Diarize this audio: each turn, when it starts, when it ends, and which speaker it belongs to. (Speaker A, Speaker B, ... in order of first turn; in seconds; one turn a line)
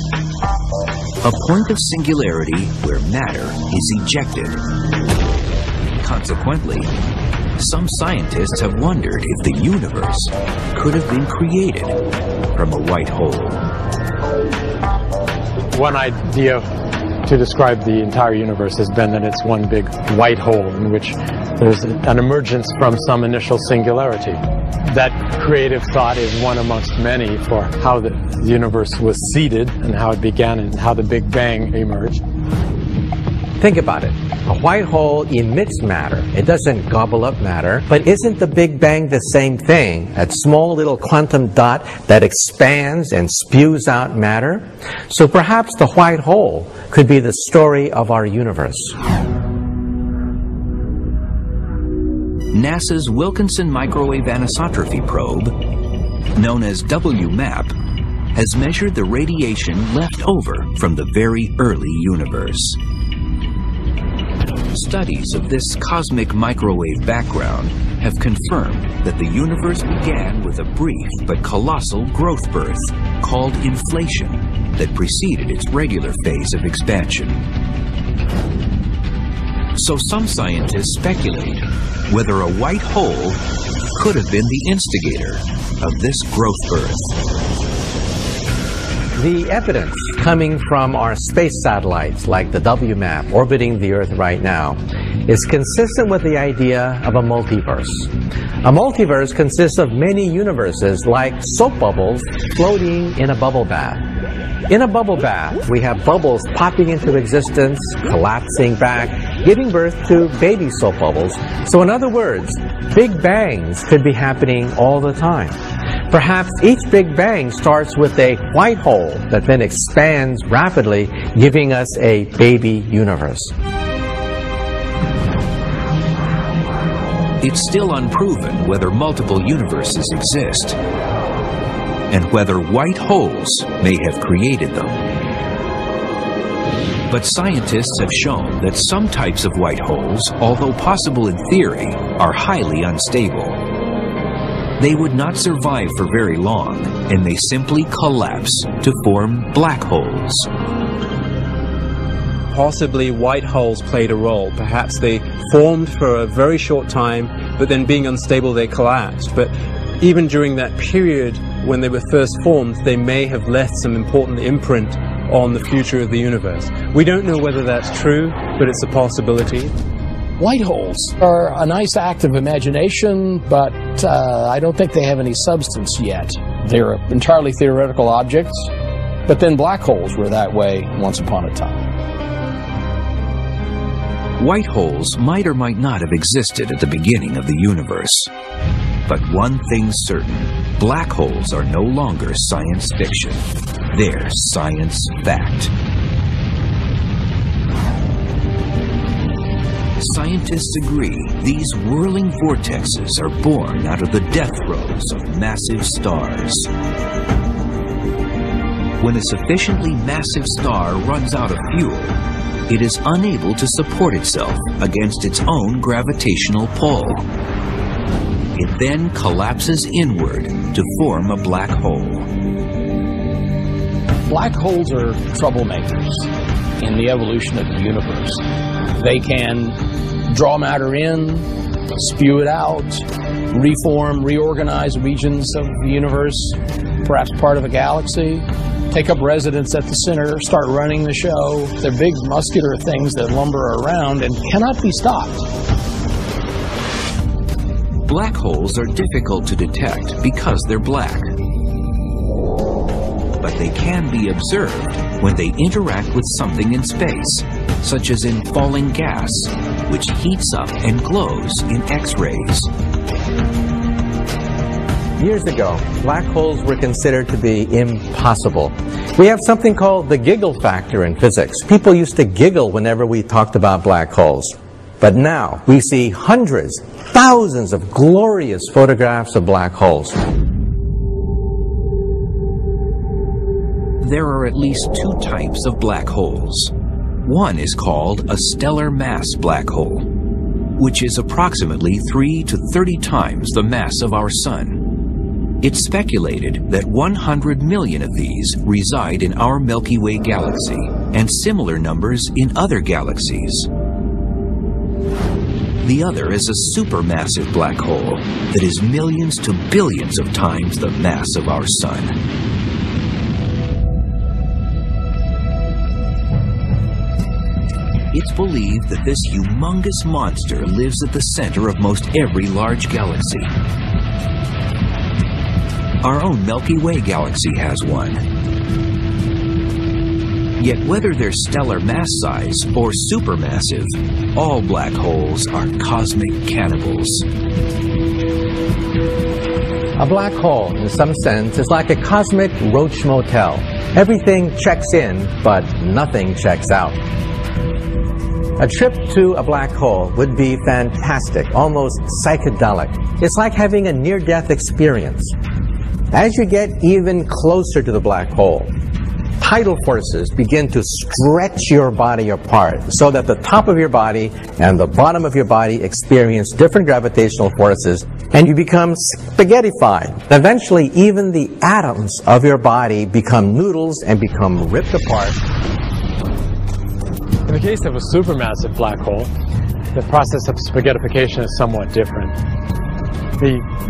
Speaker A: 1.2-4.6
Speaker A: 6.0-6.9
Speaker A: 7.6-12.0
Speaker A: 12.5-13.7
Speaker B: 15.7-16.7
Speaker B: 17.2-32.2
Speaker C: 33.6-49.0
Speaker A: 52.5-55.6
Speaker A: 56.3-57.7
Speaker A: 58.3-62.8
Speaker A: 64.7-77.4
Speaker A: 79.8-83.4
Speaker A: 83.9-87.2
Speaker C: 89.1-104.1
Speaker C: 104.7-115.6
Speaker C: 116.1-123.5
Speaker A: 127.4-130.8
Speaker A: 132.1-135.1
Speaker A: 137.1-143.6
Speaker A: 144.8-150.5
Speaker D: 152.5-169.7
Speaker E: 170.4-178.7
Speaker E: 179.2-181.9
Speaker A: 184.4-188.3
Speaker A: 189.1-195.7
Speaker A: 200.0-206.7
Speaker A: 209.0-217.2
Speaker A: 218.5-222.3
Speaker E: 224.2-245.5
Speaker A: 248.0-251.3
Speaker A: 253.4-262.7
Speaker C: 265.2-280.2
Speaker A: 284.0-286.7
Speaker A: 287.2-290.1
Speaker A: 290.8-294.8
Speaker A: 295.6-303.7
Speaker A: 305.8-312.1
Speaker A: 318.1-323.5
Speaker A: 326.0-328.2
Speaker A: 330.6-337.3
Speaker C: 340.0-347.0
Speaker C: 348.6-355.3
Speaker C: 356.1-358.7
Speaker C: 359.4-375.4
Speaker B: 377.5-379.3
Speaker B: 379.9-382.4
Speaker B: 383.4-383.6